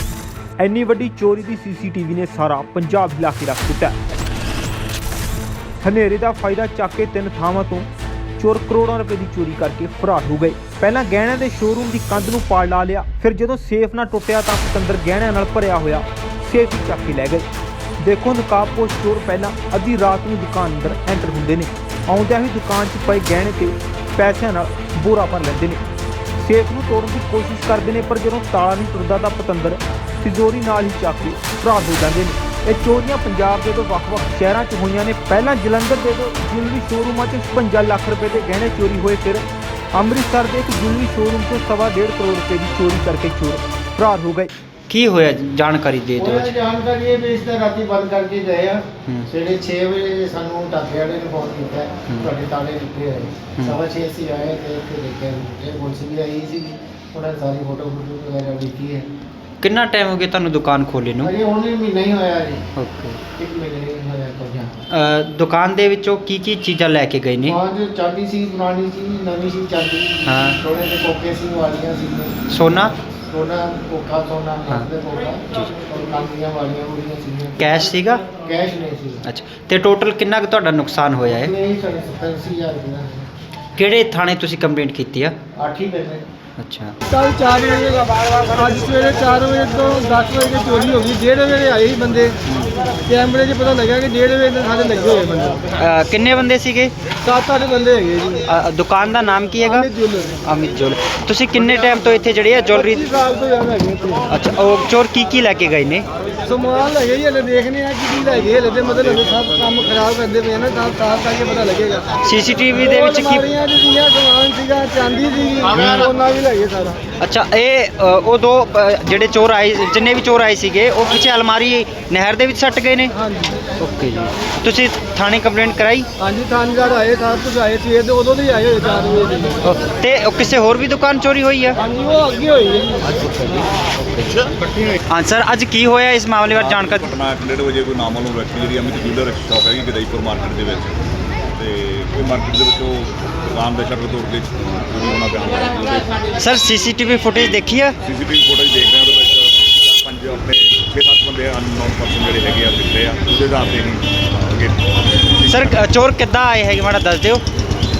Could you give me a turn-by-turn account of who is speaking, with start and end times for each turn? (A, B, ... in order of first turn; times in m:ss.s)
0:00.6-0:04.0 A
0:05.8-0:17.5 A
0:18.0-0:25.8 A
0:26.4-0:44.5 A
0:44.9-0:46.5 B
0:46.2-0:59.1 C
0:59.6-1:01.3 B
1:01.2-1:02.7 C
1:02.8-1:03.2 B
1:03.4-1:04.8 C
1:04.9-1:07.6 B
1:07.4-1:19.2 C
1:10.2-1:10.6 B
1:12.5-1:12.9 B
1:17.6-1:18.3 B
1:19.2-1:21.5 B
1:21.3-1:23.3 C
1:23.8-1:25.4 B
1:25.6-1:26.2 C
1:26.6-1:26.9 B
1:27.1-1:32.4 D
1:33.0-1:35.6 D
1:35.8-1:36.9 B
1:37.2-1:38.4 D
1:38.5-1:39.8 B
1:39.6-1:40.4 D
1:40.4-1:43.0 B
1:42.7-1:44.2 D
1:44.3-1:46.1 B
1:46.4-1:52.2 D
1:52.2-1:53.4 B
1:52.8-1:57.0 D
1:57.2-2:03.1 B
2:03.2-2:03.6 D
2:03.8-2:06.1 B
2:06.2-2:09.6 D
2:09.6-2:11.8 B
2:11.8-2:13.2 D
2:13.1-2:14.5 B
2:15.1-2:17.1 B
2:16.6-2:20.9 E
2:21.6-2:26.2 E
2:26.4-2:28.0 B
2:28.1-2:34.8 E
2:35.4-2:35.7 E
2:35.5-2:37.4 B